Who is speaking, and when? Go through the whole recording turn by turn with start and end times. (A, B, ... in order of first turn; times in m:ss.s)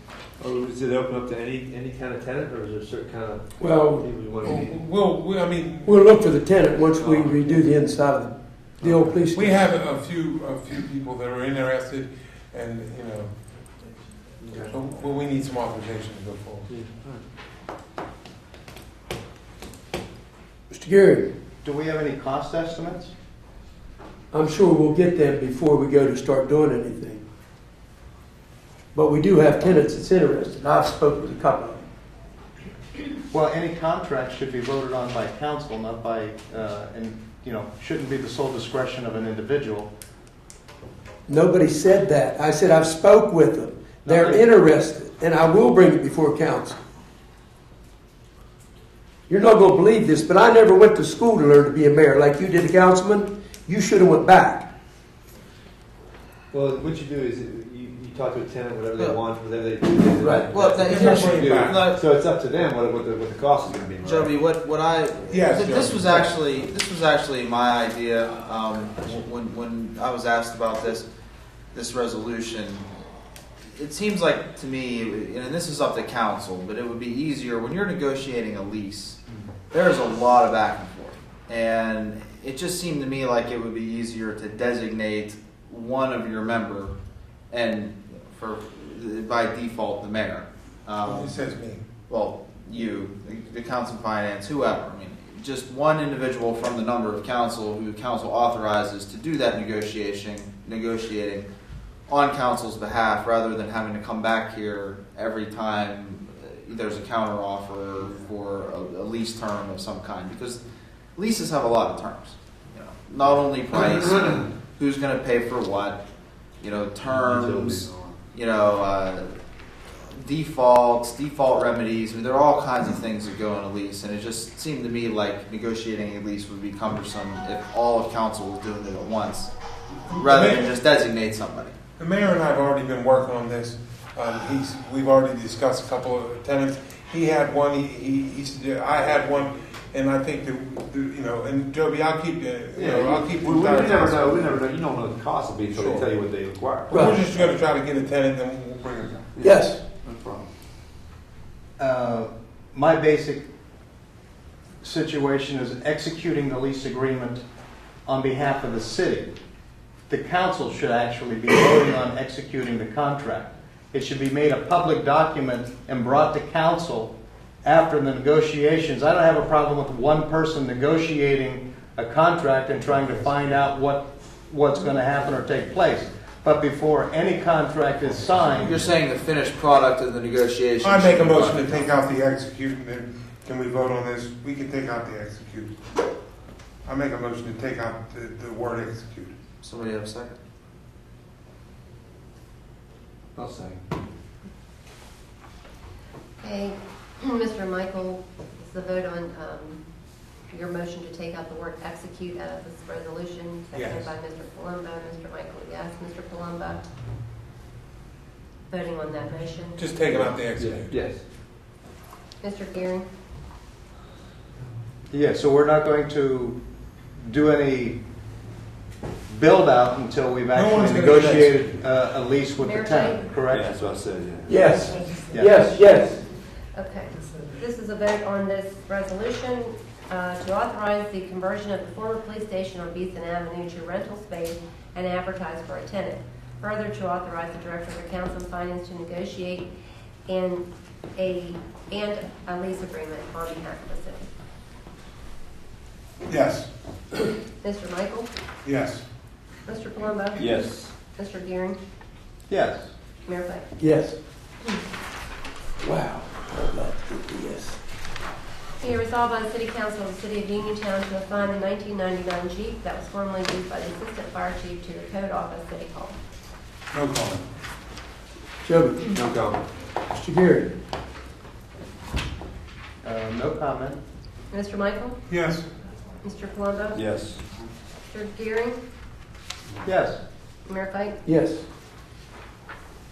0:00.4-0:04.7 A
0:03.6-0:04.2 B
0:04.4-0:06.1 C
0:05.8-0:09.6 B
0:07.0-0:07.4 A
0:08.8-0:09.2 A
0:09.3-0:13.3 C
0:14.4-0:14.7 A
0:14.7-0:16.7 C
0:16.7-0:17.2 A
0:20.7-0:21.3 B
0:21.6-0:23.1 D
0:24.3-0:27.2 B
0:28.9-0:31.8 B
0:33.3-0:39.9 D
0:41.3-0:46.8 B
0:44.0-0:44.5 D
0:49.3-0:54.7 B
0:56.5-1:04.4 A
1:00.1-1:00.6 B
1:00.5-1:02.0 E
1:00.8-1:01.9 C
1:04.0-1:11.1 E
1:05.3-1:06.3 C
1:11.7-1:12.9 E
1:13.8-1:19.2 E
1:19.7-1:26.9 E
1:27.5-1:31.4 E
1:31.0-1:31.8 C
1:32.1-1:41.5 E
1:42.1-1:50.6 E
1:51.2-1:56.0 E
1:56.6-1:59.4 E
1:57.0-1:58.2 A
2:00.1-2:09.5 E
2:10.1-2:10.8 C
2:10.2-2:11.8 E
2:12.0-2:24.6 C
2:22.7-2:27.1 A
2:25.7-2:26.1 C
2:26.9-2:29.4 C
2:26.9-2:27.3 B
2:29.4-2:30.5 A
2:29.4-2:29.8 B
2:31.8-2:33.5 D
2:34.8-2:37.4 D
2:38.1-2:39.3 D
2:40.1-2:58.8 D
2:58.5-3:02.0 E
3:00.8-3:05.7 C
3:06.8-3:09.3 C
3:09.6-3:10.4 E
3:13.4-3:13.8 A
3:16.4-3:19.8 F
3:20.5-3:26.8 F
3:23.7-3:24.1 C
3:28.7-3:30.3 F
3:29.8-3:31.0 C
3:30.6-3:31.2 A
3:32.4-3:33.1 F
3:35.1-3:36.6 D
3:37.2-3:38.0 D
3:39.3-3:43.7 D
3:40.6-3:41.8 C
3:42.6-3:43.2 F
3:43.5-3:44.7 A
3:44.5-3:46.2 B
3:46.8-3:59.7 F
4:00.3-4:04.3 F
4:06.3-4:06.7 C
4:07.6-4:08.3 F
4:08.6-4:09.0 C
4:09.7-4:11.8 F
4:10.4-4:10.9 A
4:12.5-4:12.9 D
4:13.3-4:13.7 F
4:13.8-4:14.2 B
4:15.8-4:17.8 B
4:18.8-4:26.2 F
4:26.9-4:27.4 C
4:28.6-4:29.6 B
4:30.1-4:30.7 B
4:33.0-4:34.0 D
4:34.5-4:35.2 F
4:35.3-4:35.6 C
4:36.2-4:37.0 F
4:37.0-4:37.4 A
4:38.1-4:38.8 F
4:39.8-4:40.2 D
4:40.7-4:41.2 F
4:41.2-4:41.6 B